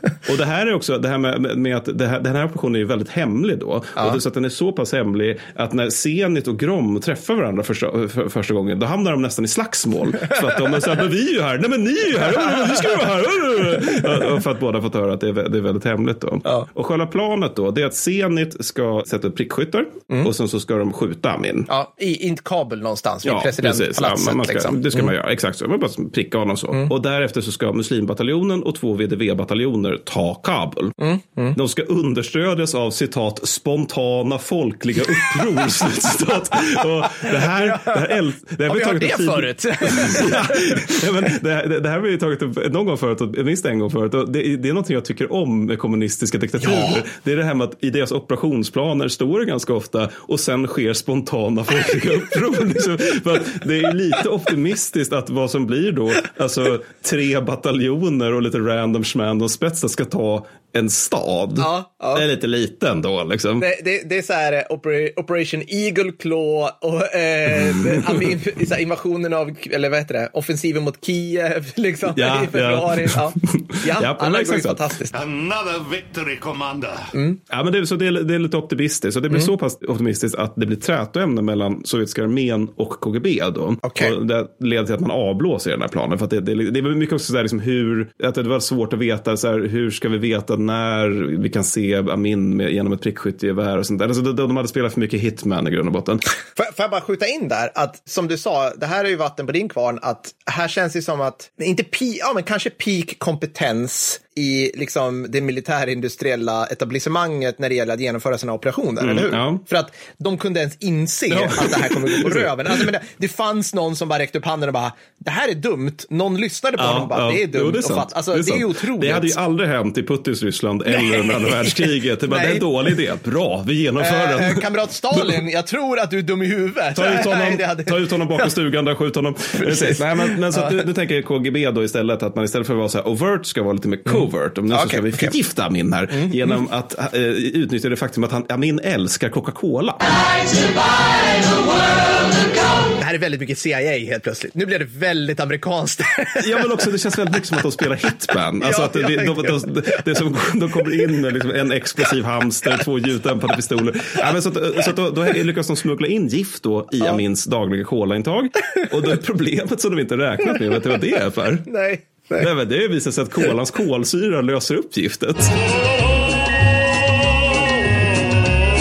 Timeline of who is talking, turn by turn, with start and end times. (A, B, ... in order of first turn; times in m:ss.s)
0:00.2-0:21.7 A
0:21.7-0:25.1 B
0:23.2-0:31.0 A
0:31.0-0:31.6 B
0:31.5-1:03.7 A
0:37.2-0:38.1 B
0:38.6-0:40.9 B
0:46.6-0:47.0 B
1:01.6-1:02.2 B
1:03.6-1:15.1 B
1:07.6-1:08.4 A
1:12.1-1:14.8 A
1:15.1-1:17.1 C
1:17.1-1:17.4 B
1:17.5-1:36.2 A
1:23.8-1:24.1 B
1:36.5-1:59.4 B
1:49.0-1:49.6 A
1:51.3-1:52.9 A
1:56.8-2:05.3 A
2:00.9-2:02.6 B
2:04.0-2:08.5 B
2:06.9-2:20.0 A
2:09.6-2:10.8 B
2:14.1-2:15.3 B
2:16.1-2:16.6 B
2:23.0-2:27.0 B
2:26.4-2:41.7 A
2:28.6-2:30.0 B
2:41.6-2:42.5 B
2:42.4-2:45.6 A